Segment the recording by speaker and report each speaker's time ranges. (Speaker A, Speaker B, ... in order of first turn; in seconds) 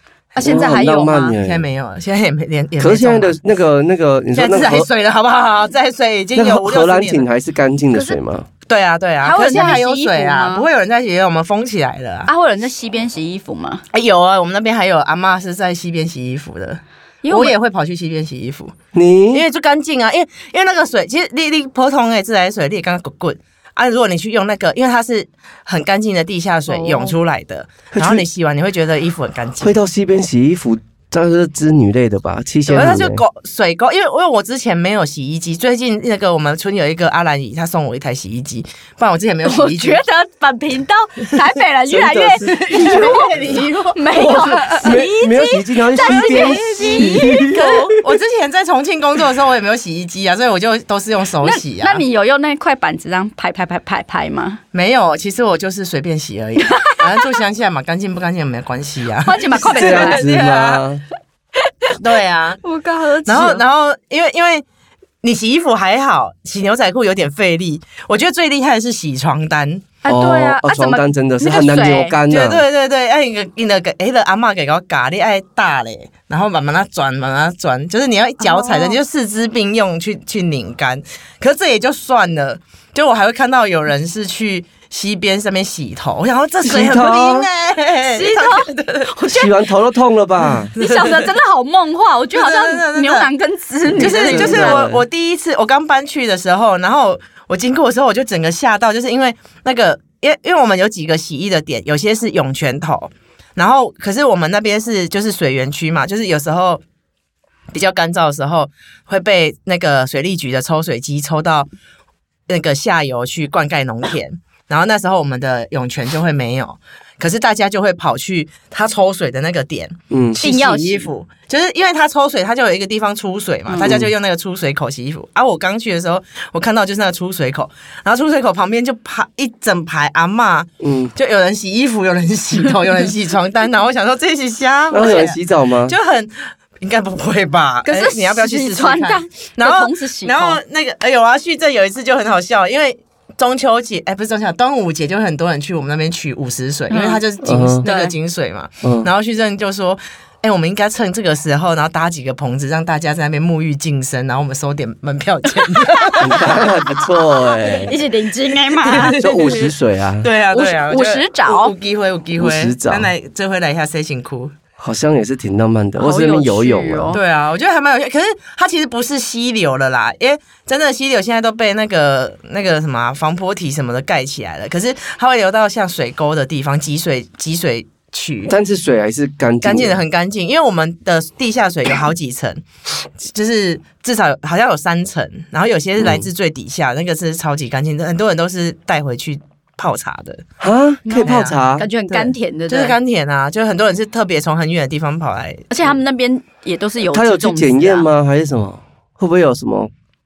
Speaker A: 0.4-1.4, 9.2-10.7, 12.3-13.8, 17.2-17.6, 26.7-27.1, 39.4-48.0, 51.4-54.6, 56.6-57.2, 59.2-60.8, 61.7-62.0, 62.6-63.6, 70.0-72.2, 78.4-79.0, 88.0-89.5, 90.8-94.8, 120.4-121.1, 123.7-123.9, 137.8-140.6, 146.9-147.2, 147.8-148.1, 155.8-159.3, 160.5-161.7, 166.0-167.2, 191.1-193.0, 195.7-198.1
Speaker B: 0.4-1.7, 2.8-4.9, 6.3-8.5, 18.9-19.4, 27.9-28.2, 29.6-33.2, 41.9-48.0, 59.6-61.0, 70.1-72.6, 86.6-87.5, 89.3-90.7, 93.9-95.0, 120.1-120.4, 123.8-124.1, 130.8-131.1, 134.9-136.0, 147.4-147.8, 148.8-149.1, 156.2-158.0, 159.1-160.3, 162.4-163.1, 164.8-167.2, 178.5-180.0, 186.0-186.3, 190.6-191.9, 197.1-199.9
Speaker C: 1.4-3.4, 4.3-7.2, 8.7-12.3, 13.9-18.8, 19.3-29.7, 32.7-40.0, 42.5-44.0, 46.0-52.0, 54.7-60.6, 62.0-62.6, 63.3-64.7, 65.2-69.9, 72.3-89.1, 90.7-91.3, 92.3-93.3, 94.0-106.8, 107.7-111.7, 112.5-156.6, 158.8-159.7, 160.2-164.5, 167.1-178.5, 179.6-182.6, 183.2-190.4, 191.2-191.6, 192.1-195.9